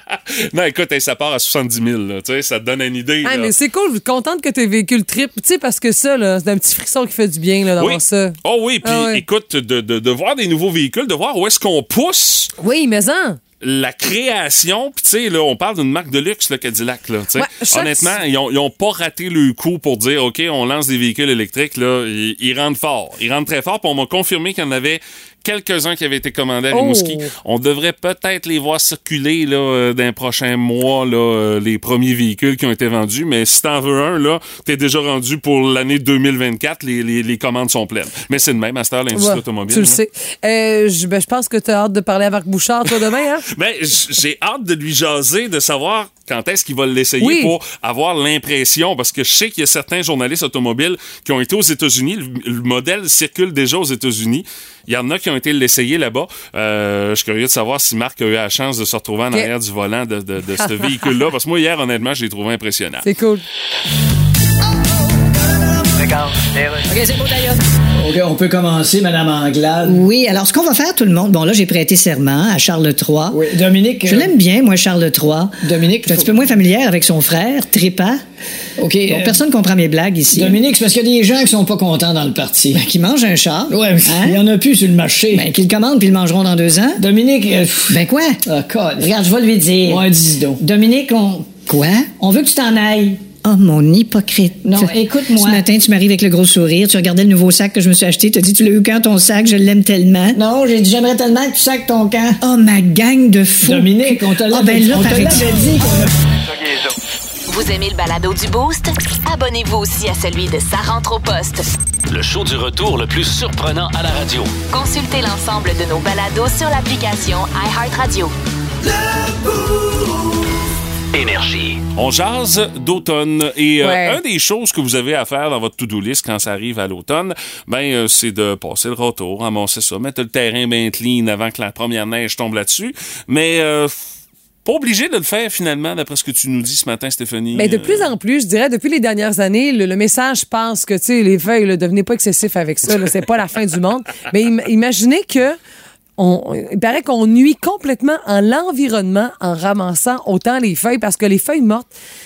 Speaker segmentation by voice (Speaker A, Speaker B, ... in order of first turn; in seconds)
Speaker A: 0.3-3.5, 7.8-12.5, 13.6-40.0, 43.5-63.1, 121.9-134.0, 134.6-138.1
Speaker B: 3.2-9.2, 12.6-13.4, 17.4-18.2, 26.7-27.3, 39.1-43.5, 47.2-47.5, 60.6-61.1, 63.0-63.4, 123.8-124.2, 137.5-145.6, 146.2-151.9
Speaker C: 66.9-67.5, 69.8-73.4, 74.0-78.2, 79.1-80.6, 82.7-84.4, 85.3-87.0, 87.9-88.4, 89.0-90.1, 90.6-92.3, 93.3-100.4, 102.4-105.9
Speaker D: 68.0-70.0, 73.3-74.3, 75.6-76.4, 78.8-79.4, 80.3-82.8, 83.7-85.5, 87.0-89.1, 89.8-91.4, 92.2-93.2, 94.6-95.6, 100.3-102.4, 103.6-106.1
Speaker E: 107.5-111.6, 114.7-118.3
Speaker F: 112.1-114.5, 121.1-121.8